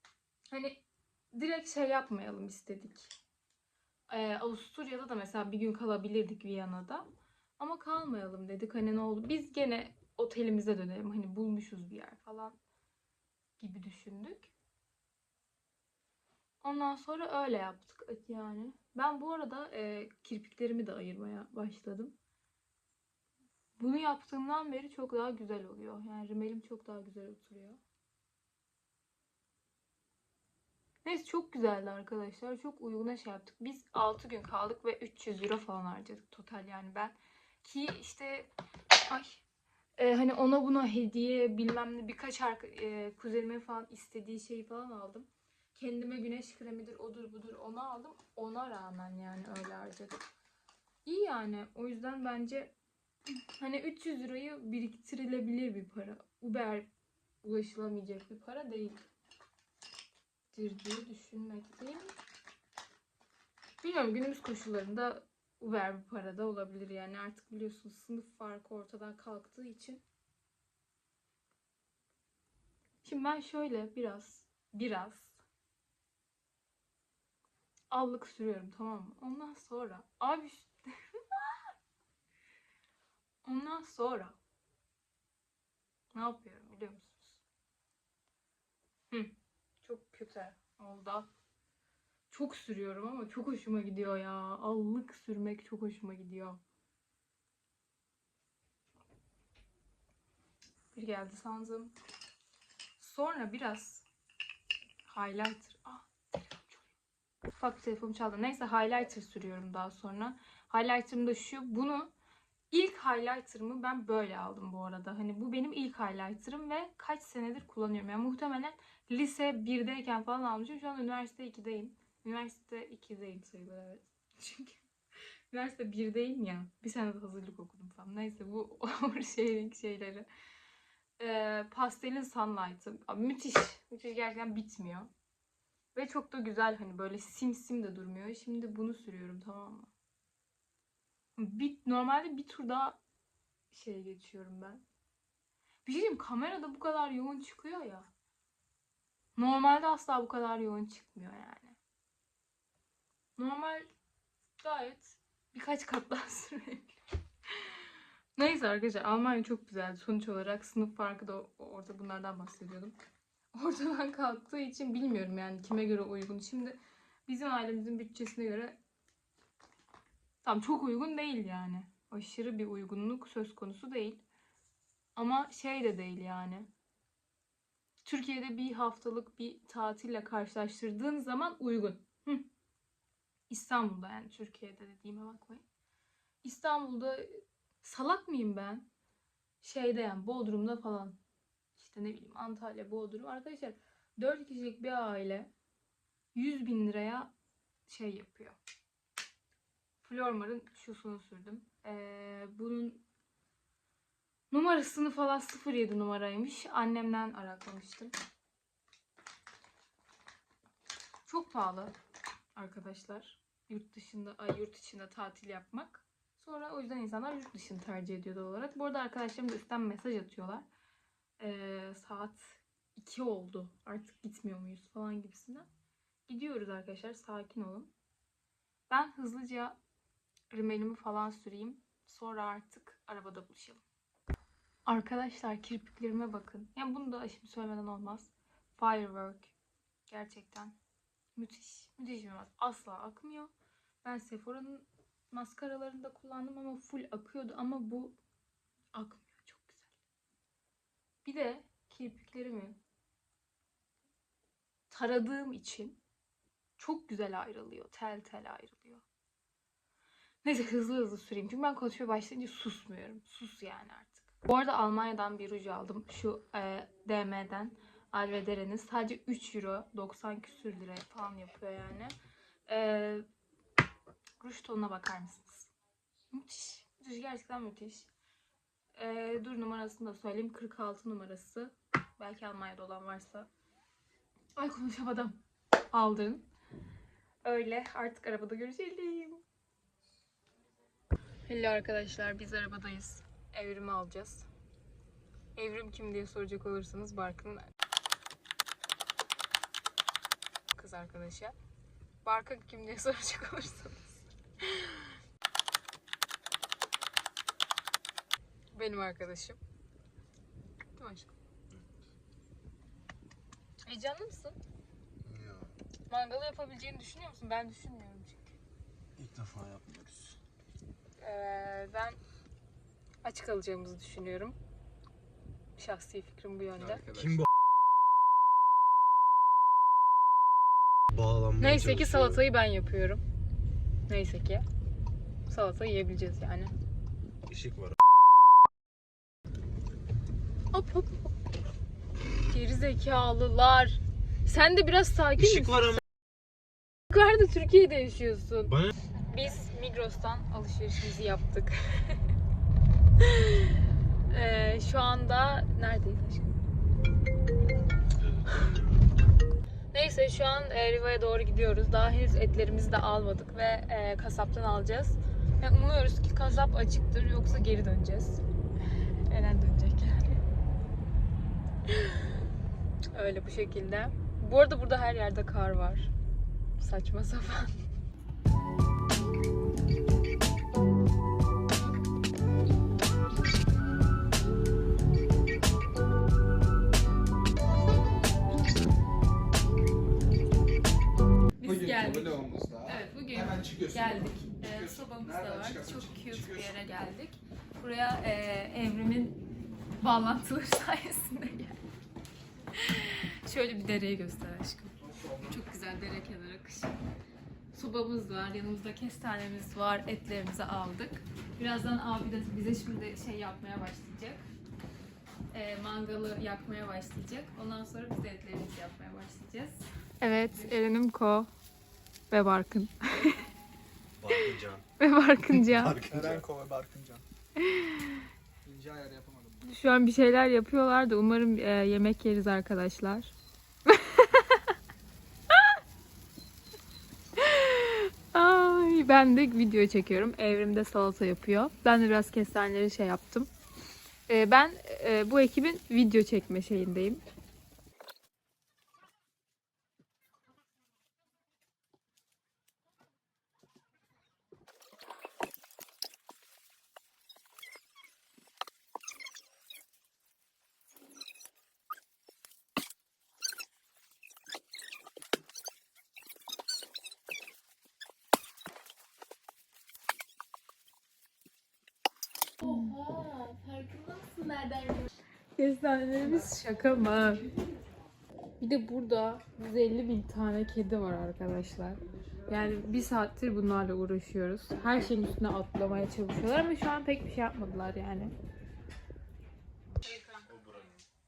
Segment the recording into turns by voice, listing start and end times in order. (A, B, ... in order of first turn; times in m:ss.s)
0:00.5-0:03.1 A
0:04.1-0:07.0 A
0:07.6-0:12.6 A
0:13.6-0:14.5 A
0:16.6-0:22.1 A
0:23.8-0:27.8 A
0:31.0-0:38.5 A
0:39.1-0:39.4 A
0:40.0-0:50.2 A
0:51.0-0:52.7 A
0:53.4-0:56.9 A
0:57.4-0:59.0 A
1:00.5-1:02.1 A
1:03.8-1:10.0 A
1:13.0-1:15.4 A
1:17.9-1:21.5 A
1:23.4-1:24.4 A
1:26.1-1:27.4 A
1:29.1-1:31.3 A
1:32.3-1:36.6 A
1:40.9-1:41.9 A
1:43.0-1:44.0 A
1:45.0-1:47.0 A
1:47.5-1:52.1 A
1:52.7-2:04.8 A
2:05.5-2:10.3 A
2:11.2-2:15.1 A
2:15.9-2:19.9 A
2:21.4-2:23.0 A
2:23.7-2:24.8 A
2:25.8-2:28.1 A
2:29.4-2:31.8 A
2:33.4-2:33.8 A
2:34.6-2:36.9 A
2:37.5-2:43.0 A
2:43.5-2:48.8 A
2:50.4-2:54.2 A
2:55.2-2:56.7 A
2:58.0-3:02.5 A
3:03.5-3:05.6 A
3:06.4-3:08.9 A
3:09.6-3:11.2 A
3:11.8-3:15.5 A
3:16.3-3:17.3 A
3:17.9-3:18.6 A
3:20.0-3:23.0 A
3:24.5-3:28.1 A
3:31.2-3:31.9 A
3:32.5-3:40.7 A
3:41.4-3:45.7 A
3:46.3-3:47.9 A
3:48.9-3:49.8 A
3:50.5-3:53.8 A
3:54.8-3:59.5 A
4:00.1-4:00.8 A
4:01.4-4:03.5 A
4:04.0-4:08.2 A
4:08.9-4:10.0 A
4:11.2-4:12.8 A
4:14.9-4:16.0 A
4:16.8-4:19.0 A
4:20.4-4:32.2 A
4:32.7-4:33.2 A
4:34.4-4:35.7 A
4:36.3-4:38.1 A
4:38.9-4:43.5 A
4:44.6-4:46.5 A
4:47.4-4:49.4 A
4:51.4-4:54.5 A
4:55.6-4:57.6 A
5:00.7-5:01.5 A
5:02.2-5:05.1 A
5:08.7-5:09.6 A
5:11.0-5:11.3 A
5:13.9-5:14.6 A
5:15.2-5:15.6 B
5:16.1-5:18.6 A
5:19.2-5:20.1 B
5:21.2-5:22.2 A
5:23.2-5:24.6 A
5:25.8-5:27.0 A
5:26.8-5:27.4 C
5:27.2-5:27.4 B
5:31.1-5:32.4 B
5:31.6-5:33.2 A
5:34.1-5:34.6 A
5:35.5-5:36.7 A
5:37.5-5:38.0 B
5:40.7-5:41.3 A
5:42.4-5:46.0 A
5:47.1-5:52.2 A
5:53.2-5:53.7 A
5:54.3-5:56.6 A
5:58.0-5:59.2 B
5:59.9-6:08.4 A
6:09.2-6:10.4 A
6:11.9-6:12.3 A
6:13.1-6:16.1 A
6:16.8-6:17.8 A
6:31.6-6:39.4 A
6:31.6-6:36.9 C
6:40.0-6:41.8 A
6:42.7-6:46.9 A
6:45.0-6:45.6 C
6:47.7-6:54.5 A
6:55.5-7:01.5 A
7:02.3-7:03.4 A
7:04.2-7:04.8 B
7:05.0-7:06.0 A
7:05.6-7:06.4 B
7:06.0-7:07.2 C
7:07.6-7:08.2 A
7:08.6-7:09.7 C
7:09.6-7:13.3 A
7:13.9-7:14.7 A
7:15.5-7:15.8 A
7:17.4-7:23.5 A
7:24.3-7:27.2 A
7:52.6-7:57.5 A
7:58.6-8:08.3 A
8:10.0-8:10.5 A
8:10.4-8:11.0 B